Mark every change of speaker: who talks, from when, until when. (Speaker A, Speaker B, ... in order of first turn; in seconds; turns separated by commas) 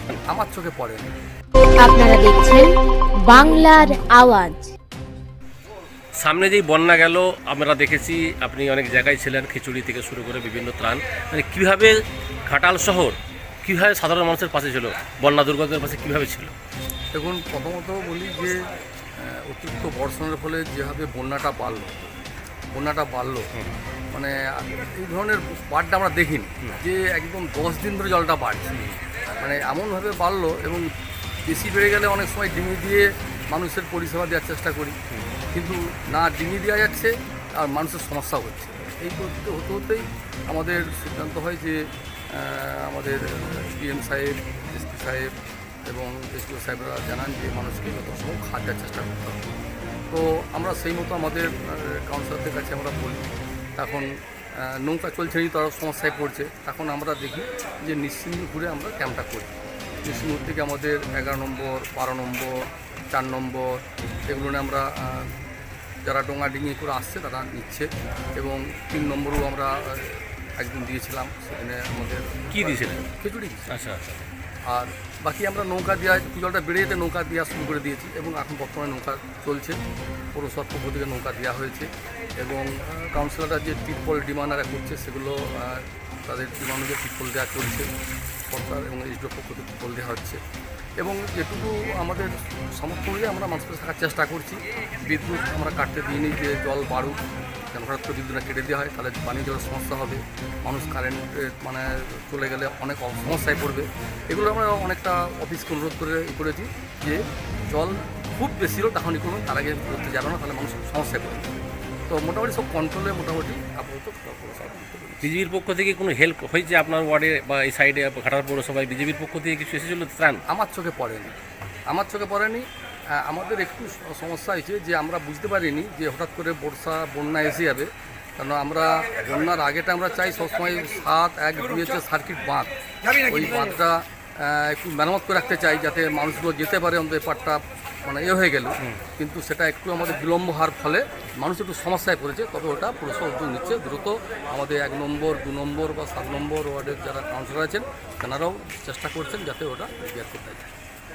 Speaker A: 0.3-1.1, Speaker B: 1.8-2.7, Speaker B: 3.2-4.7, Speaker C: 6.2-16.5, Speaker A: 17.1-18.6, Speaker A: 19.2-22.2, Speaker A: 22.7-23.5, Speaker A: 24.1-28.8, Speaker A: 29.4-30.9, Speaker A: 31.5-35.0, Speaker A: 35.5-41.8, Speaker A: 42.3-45.3, Speaker A: 45.9-49.4, Speaker A: 50.1-53.2, Speaker A: 53.8-65.3, Speaker A: 66.0-73.7, Speaker C: 72.5-73.1, Speaker C: 73.7-74.2, Speaker A: 74.7-79.8, Speaker A: 80.3-81.9, Speaker A: 82.4-87.9, Speaker A: 88.5-90.4, Speaker A: 91.0-97.2, Speaker A: 97.7-111.5, Speaker A: 112.1-115.3, Speaker C: 115.2-120.4, Speaker A: 120.5-121.3, Speaker A: 121.9-132.7, Speaker A: 133.3-150.7